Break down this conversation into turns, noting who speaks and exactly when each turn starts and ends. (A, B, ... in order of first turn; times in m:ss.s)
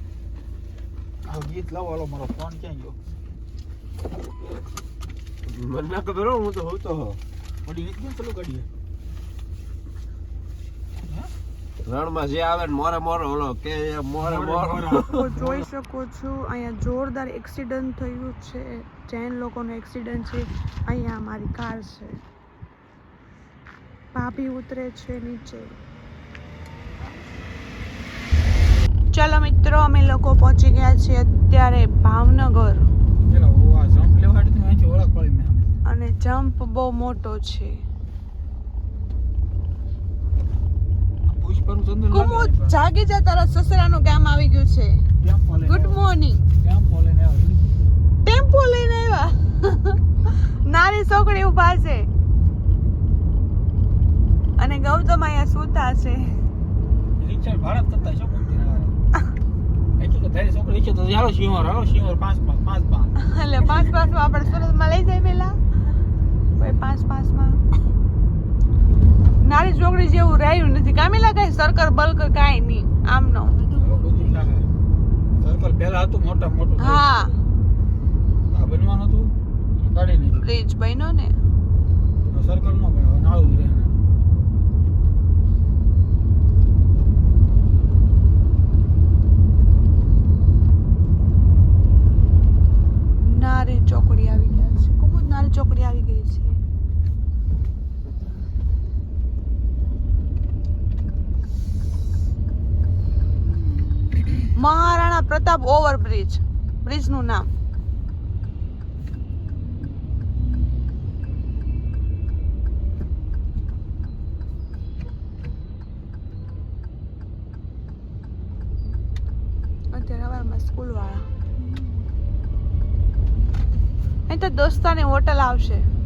0:01.3-0:03.0 A
0:05.5-0:07.2 B
0:07.7-0:08.7 A
0:11.0-0:11.3 A
0:11.8-0:15.2 B
0:14.2-0:15.7 A
0:14.9-0:22.2 C
0:24.1-0:25.8 C
0:29.1-0:32.9 C
0:33.2-0:35.8 A
0:35.9-0:37.8 C
0:41.3-0:42.8 A
0:42.1-0:44.9 C
0:45.2-0:47.7 A
0:45.7-0:46.4 C
0:48.2-0:52.1 C
0:54.6-0:56.4 C
0:57.2-0:59.0 A
1:00.0-1:03.1 A
1:03.2-1:05.6 C
1:06.6-1:07.6 C
1:09.4-1:13.6 C
1:13.7-1:14.7 A
1:15.4-1:17.1 A
1:16.8-1:17.3 C
1:18.5-1:20.4 A
1:20.4-1:21.3 C
1:22.3-1:23.9 A
1:33.3-1:36.6 C
1:44.6-1:47.5 C
1:59.9-2:01.3 C
2:04.3-2:05.8 C